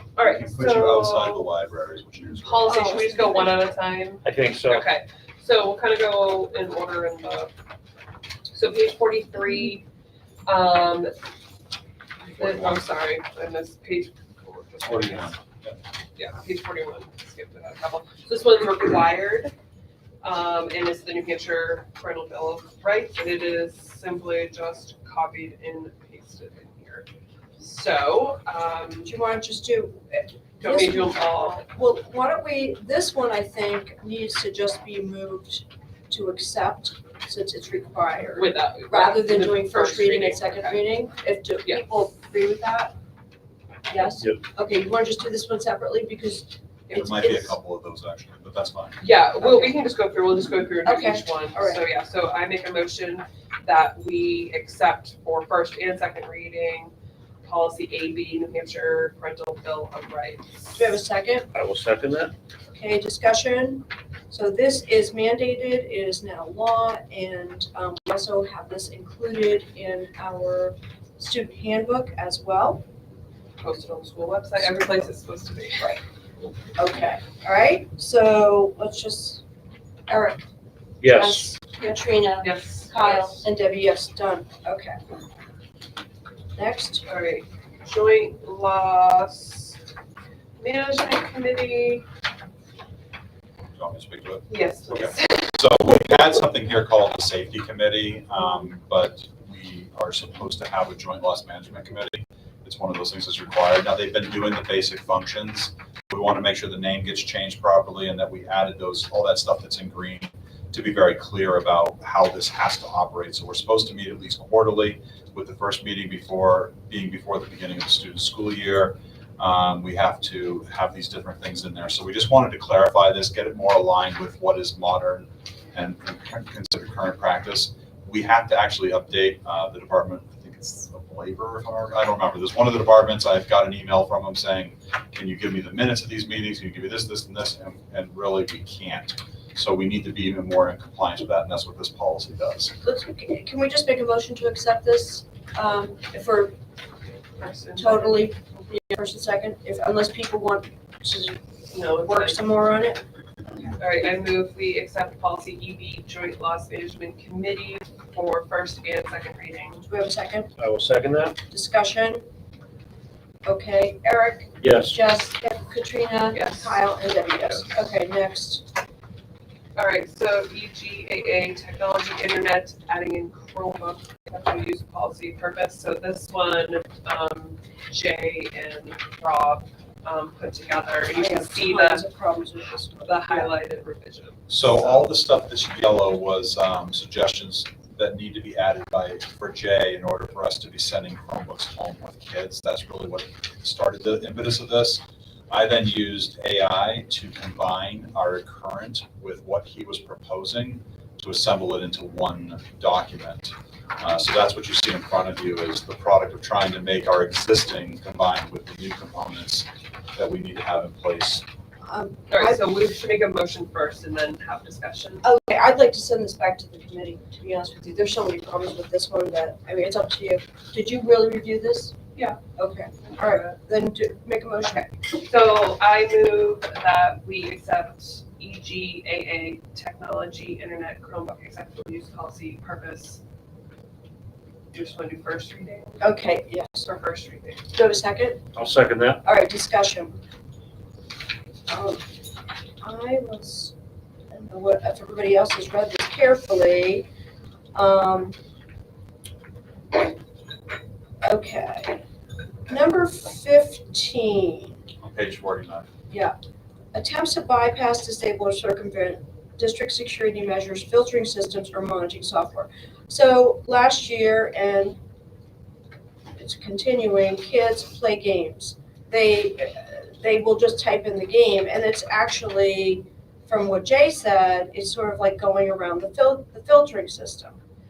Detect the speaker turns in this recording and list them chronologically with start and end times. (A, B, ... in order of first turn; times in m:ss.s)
0:00.2-0:01.4 A
0:00.2-0:03.1 B
0:02.4-0:07.5 A
0:02.6-0:03.6 C
0:04.2-0:04.8 D
0:08.5-0:09.8 A
0:10.4-0:11.2 A
0:12.2-0:12.8 B
0:12.4-0:15.3 A
0:14.8-0:15.8 B
0:14.8-0:15.2 D
0:16.2-0:19.5 A
0:20.2-0:27.1 A
0:27.6-0:29.1 A
0:29.0-0:42.9 C
0:30.6-0:31.6 A
0:38.4-0:40.9 A
0:43.9-0:47.5 C
0:46.9-0:47.1 A
0:46.9-0:49.1 B
0:49.0-0:56.9 A
0:49.4-0:49.8 C
0:50.8-0:51.8 C
0:57.4-1:00.7 A
1:00.7-1:01.5 C
1:01.5-1:02.3 D
1:02.7-1:12.8 C
1:13.6-1:16.0 A
1:15.8-1:16.0 C
1:16.8-1:19.4 C
1:20.1-1:20.4 C
1:21.0-1:21.5 D
1:21.0-1:24.9 C
1:22.4-1:23.4 A
1:26.6-1:27.1 C
1:27.0-1:29.8 A
1:30.6-1:32.0 A
1:33.8-2:22.7 B
1:34.5-1:35.5 A
2:22.8-2:26.5 C
2:27.4-2:28.3 A
2:27.8-2:31.4 C
2:31.7-2:32.4 A
2:32.0-2:33.0 C
2:33.8-2:39.8 A
2:39.8-2:40.5 C
2:40.6-2:41.4 D
2:41.5-2:42.2 C
2:43.4-2:48.6 C
2:44.6-2:45.0 D
2:46.3-2:46.8 A
2:49.8-3:02.0 A
3:01.1-3:03.5 C
3:03.0-3:04.4 A
3:04.5-3:31.4 B
3:31.8-3:32.6 C
3:32.3-3:35.2 A
3:35.2-3:42.0 C
3:42.6-3:44.9 C
3:43.0-3:43.5 A
3:45.2-3:53.2 A
3:54.7-3:56.0 A
3:56.0-3:56.9 C
3:56.8-3:57.6 A
3:57.7-3:58.4 C
3:58.5-3:59.2 D
3:59.2-4:00.2 C
4:01.7-4:02.0 C
4:02.8-4:03.7 C
4:04.3-4:07.1 C
4:07.7-4:08.4 C
4:11.2-4:12.0 C
4:12.7-4:14.8 C
4:15.0-4:15.9 B
4:16.9-4:25.0 C
4:26.4-4:37.6 C